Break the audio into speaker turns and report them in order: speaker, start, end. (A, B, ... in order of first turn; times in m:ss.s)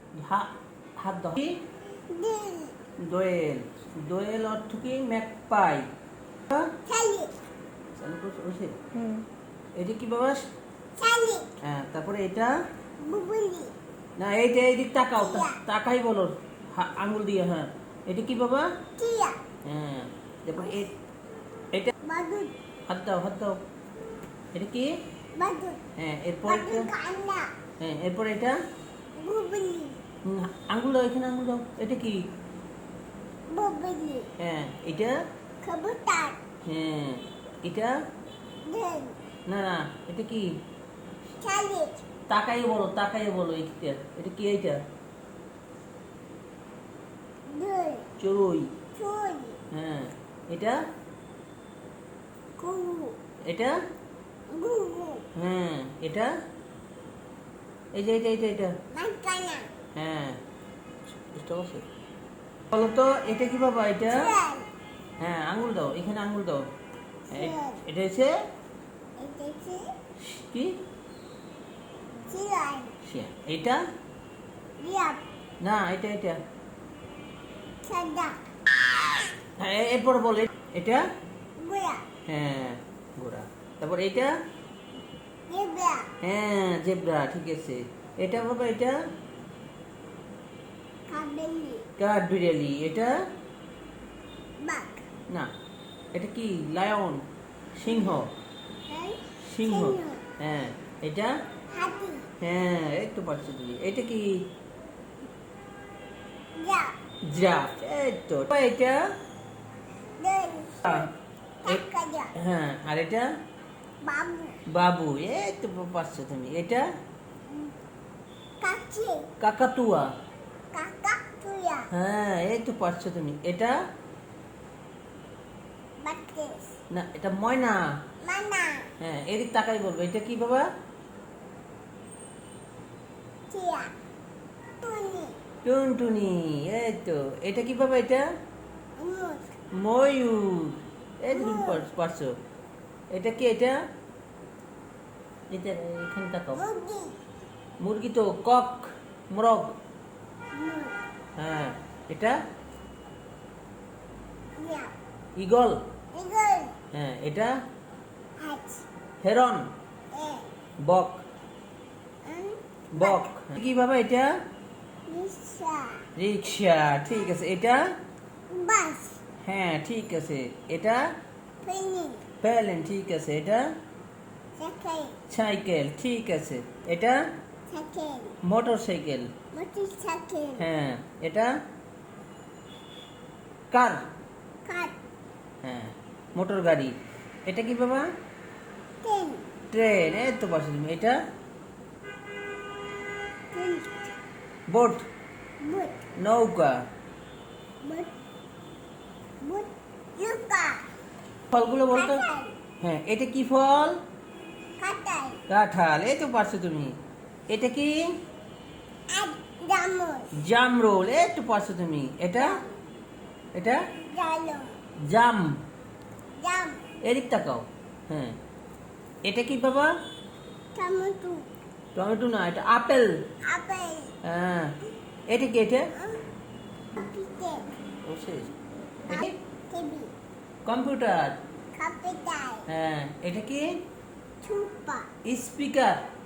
0:00.2-0:01.6 A
0:02.1-0:02.7 B
0:03.0-0:05.8 A
0:06.8-0:07.3 B
0:08.0-0:08.8 A
0:09.8-0:10.4 A
0:11.0-0:11.5 B
0:11.6-0:12.5 A
0:13.0-0:13.7 B
0:14.2-0:18.7 A
0:15.2-0:15.6 B
0:19.0-0:19.4 B
0:19.6-0:20.9 A
0:22.0-0:22.5 B
0:22.9-0:23.6 A
0:24.5-0:24.9 A
0:25.4-0:25.8 B
0:26.0-0:26.9 A
0:26.4-0:27.5 B
0:27.8-0:28.6 A
0:29.2-0:30.0 B
0:30.2-0:32.3 A
0:33.5-0:34.3 B
0:34.4-0:35.1 A
0:35.6-0:36.4 B
0:36.6-0:37.9 A
0:38.6-0:39.2 B
0:39.5-0:40.6 A
0:41.4-0:42.0 B
0:42.3-0:44.8 A
0:47.5-0:48.1 B
0:48.2-0:48.7 A
0:48.9-0:49.6 B
0:49.7-0:50.8 A
0:52.6-0:53.2 B
0:53.4-0:53.8 A
0:54.5-0:55.2 B
0:55.4-0:56.3 A
0:57.9-0:58.7 A
0:58.9-0:59.7 B
0:59.9-1:00.4 A
1:01.3-1:01.8 A
1:02.7-1:04.3 A
1:04.1-1:04.7 B
1:05.2-1:06.6 A
1:07.3-1:07.8 B
1:07.3-1:08.3 A
1:09.2-1:09.9 B
1:10.2-1:10.8 A
1:12.3-1:13.0 B
1:13.0-1:13.8 A
1:14.8-1:15.2 B
1:15.6-1:16.4 A
1:17.8-1:18.4 B
1:19.6-1:21.0 A
1:21.6-1:22.0 B
1:22.3-1:24.3 A
1:25.5-1:26.1 B
1:26.2-1:28.9 A
1:31.1-1:31.9 B
1:32.0-1:33.1 A
1:34.6-1:35.0 B
1:36.1-1:37.2 A
1:37.8-1:38.3 A
1:38.9-1:40.2 B
1:39.4-1:41.3 A
1:41.7-1:42.2 B
1:42.4-1:44.4 A
1:46.6-1:46.9 B
1:47.2-1:49.0 A
1:50.2-1:51.1 B
1:51.6-1:52.3 B
1:52.4-1:53.2 A
1:54.0-1:54.6 B
1:54.7-1:56.9 A
1:58.6-1:59.3 B
1:59.4-2:00.1 A
2:00.7-2:01.9 B
2:01.9-2:03.7 A
2:06.0-2:06.8 B
2:06.9-2:07.8 A
2:08.2-2:08.9 B
2:09.0-2:10.7 A
2:13.5-2:13.9 B
2:14.8-2:15.4 B
2:15.6-2:18.2 A
2:19.0-2:19.6 B
2:19.7-2:22.3 A
2:21.3-2:21.8 B
2:23.1-2:23.8 A
2:25.5-2:26.6 A
2:26.5-2:27.2 B
2:27.8-2:29.7 A
2:30.5-2:31.0 B
2:31.4-2:32.4 A
2:34.6-2:34.9 B
2:35.4-2:35.8 A
2:36.1-2:36.7 B
2:36.9-2:37.5 A
2:38.4-2:38.8 B
2:39.2-2:39.7 A
2:40.1-2:40.5 B
2:40.8-2:41.2 A
2:42.2-2:43.3 B
2:42.9-2:44.3 A
2:45.1-2:46.1 B
2:46.2-2:47.8 A
2:48.5-2:49.2 B
2:49.4-2:51.0 A
2:51.6-2:52.2 B
2:52.4-2:53.6 A
2:54.6-2:55.2 B
2:55.3-2:57.2 A
2:57.7-2:58.4 B
2:58.4-2:59.3 A
2:59.5-3:00.7 B
3:00.6-3:01.5 A
3:03.7-3:04.0 A
3:04.6-3:05.0 B
3:05.6-3:06.9 A
3:07.5-3:08.1 A
3:09.0-3:09.5 B
3:09.7-3:11.2 A
3:13.5-3:14.1 B
3:14.7-3:15.0 A
3:15.6-3:16.0 B
3:16.2-3:16.7 A
3:17.8-3:18.1 B
3:19.4-3:20.8 B
3:21.5-3:22.2 A
3:21.9-3:22.6 B
3:22.8-3:24.0 A
3:24.8-3:25.4 B
3:25.5-3:26.9 A
3:27.5-3:28.0 A
3:29.1-3:30.3 B
3:30.4-3:32.6 A
3:32.4-3:32.8 B
3:34.1-3:34.8 B
3:35.0-3:35.6 A
3:36.4-3:36.8 B
3:37.0-3:38.3 A
3:39.2-3:39.9 A
3:40.7-3:41.5 B
3:41.9-3:43.1 A
3:43.5-3:44.1 B
3:44.2-3:44.7 A
3:45.3-3:45.9 A
3:45.9-3:46.2 B
3:47.0-3:47.7 B
3:48.0-3:48.5 A
3:49.1-3:49.3 A
3:49.1-3:50.1 B
3:50.6-3:51.4 A
3:51.7-3:52.6 B
3:52.7-3:53.7 A
3:54.4-3:55.1 B
3:55.2-3:56.0 A